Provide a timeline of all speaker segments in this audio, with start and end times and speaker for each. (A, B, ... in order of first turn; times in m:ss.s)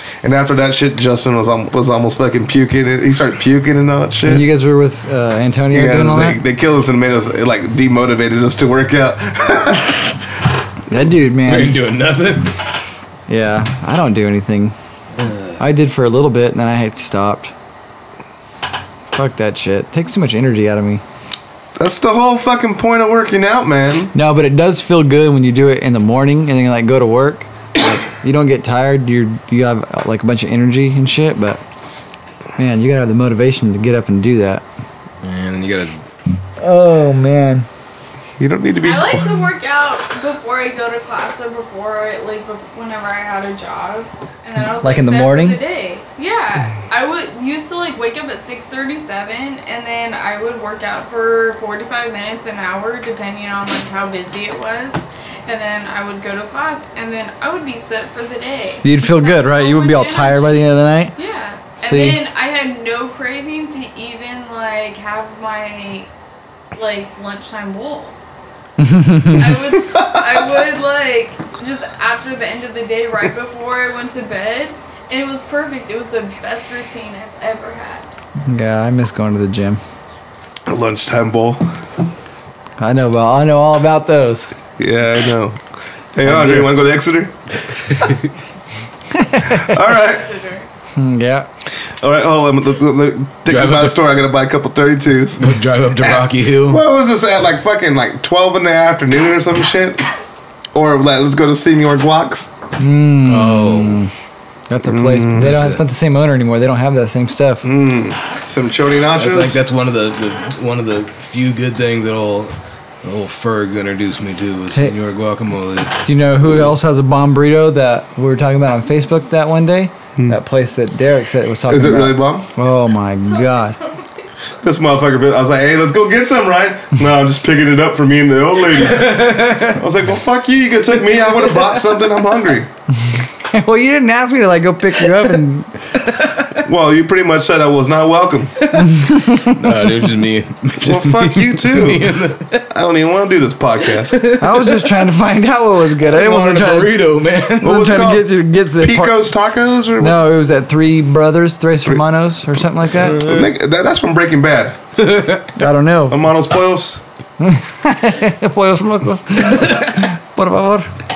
0:00.2-0:04.5 A
0:04.2-0:06.4 B
0:05.7-0:10.2 A
0:10.9-0:11.8 B
0:11.4-0:12.6 C
0:13.3-0:14.7 B
0:15.2-0:15.6 C
0:15.6-0:17.5 B
0:19.1-0:21.0 B
0:21.8-0:24.1 A
0:24.1-0:31.6 B
0:32.6-0:34.6 B
0:35.2-0:36.0 C
0:36.6-0:37.6 B
0:38.4-0:39.4 A
0:38.8-1:06.1 D
0:44.8-0:45.6 B
0:58.8-1:01.1 B
1:01.8-1:02.2 B
1:06.7-1:08.2 D
1:08.8-1:09.6 B
1:09.3-1:18.1 D
1:09.8-1:10.5 A
1:18.4-1:19.8 B
1:20.7-1:21.6 A
1:22.8-1:24.5 B
1:24.8-1:25.6 A
1:26.1-1:27.3 A
1:26.2-1:26.7 B
1:27.9-1:28.3 C
1:29.1-1:29.7 B
1:29.4-1:30.3 A
1:29.8-1:30.7 D
1:31.0-1:31.5 B
1:32.0-1:40.0 A
1:33.5-1:34.0 C
1:35.4-1:36.8 C
1:40.7-1:42.5 A
1:42.8-1:44.1 B
1:43.3-1:44.0 C
1:44.7-1:47.6 B
1:44.8-1:45.6 A
1:45.3-1:45.8 C
1:47.6-1:49.6 A
1:49.1-1:56.0 C
1:56.0-2:03.8 B
2:01.7-2:02.5 A
2:03.2-2:04.6 D
2:04.6-2:12.7 A
2:08.7-2:09.8 C
2:13.1-2:15.7 B
2:16.6-2:18.5 A
2:18.6-2:22.7 C
2:18.8-2:19.7 B
2:20.8-2:22.2 A
2:22.7-2:24.2 A
2:23.9-2:24.9 C
2:24.4-2:27.0 B
2:26.0-2:27.8 C
2:27.6-2:30.3 A
2:27.6-2:29.2 B
2:30.0-2:33.2 B
2:32.9-2:33.5 C
2:33.0-2:34.8 A
2:35.0-2:35.5 C
2:35.6-2:36.2 B
2:36.1-2:37.0 A
2:37.4-2:40.9 B